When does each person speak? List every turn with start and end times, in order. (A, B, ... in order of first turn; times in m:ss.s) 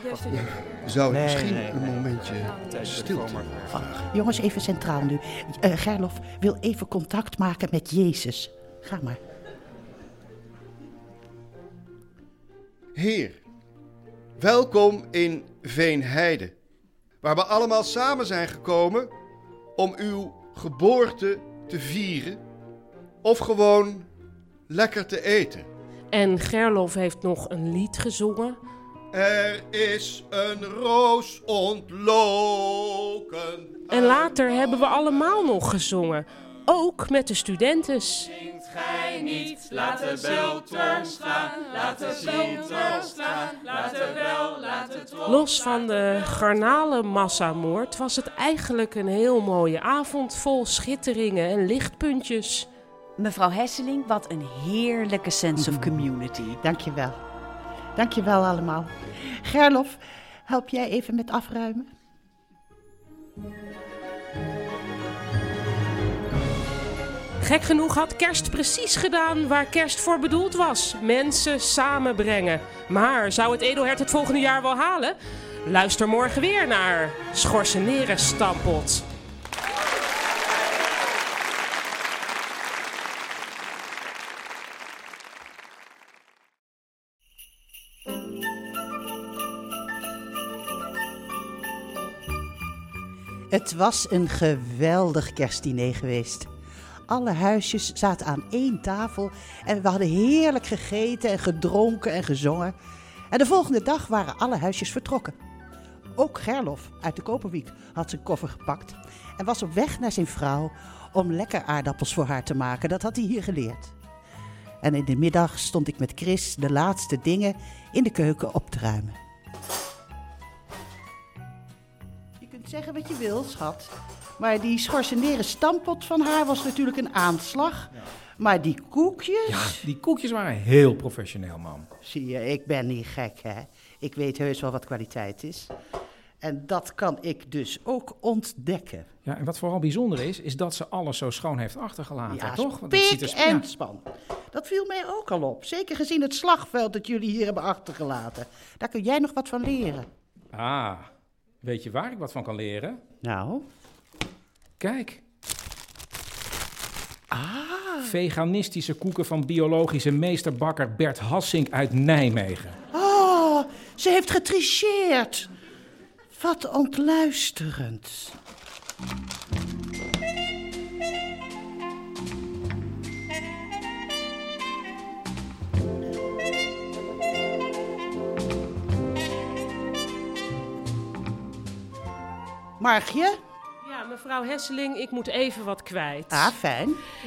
0:00.3-0:03.4 A
0:01.1-0:02.0 B
0:02.6-0:03.8 B
0:03.7-0:09.2 C
0:12.9-0:13.4 A
0:14.4-0:16.5 A
0:17.2-0:19.1 A
0:19.8-0:22.4 A
0:23.2-0:24.1 A
0:24.7-0:25.7 A
0:26.1-0:28.6 D
0:29.1-0:34.1 A
0:33.9-0:38.3 D
0:39.2-0:44.9 B
0:45.2-0:52.7 D
0:53.2-0:56.6 E
0:55.6-0:56.0 C
0:56.6-0:57.2 C
0:58.0-1:01.9 C
1:07.4-1:19.0 D
1:33.5-1:36.5 C
1:37.1-1:42.7 C
1:43.3-1:45.4 C
1:46.2-1:53.9 C
1:54.8-1:59.2 C
2:02.4-2:09.8 C
2:09.5-2:11.9 F
2:12.0-2:15.7 C
2:16.4-2:19.1 C
2:19.2-2:23.6 F
2:22.3-2:30.1 C
2:30.5-2:31.1 F
2:31.6-2:33.0 F
2:33.2-2:33.6 C
2:34.8-2:35.2 F
2:37.3-2:38.1 C
2:38.0-2:42.8 F
2:42.9-2:45.5 C
2:46.3-2:48.3 C
3:02.8-3:03.4 C
3:03.8-3:06.5 D
3:06.3-3:07.0 C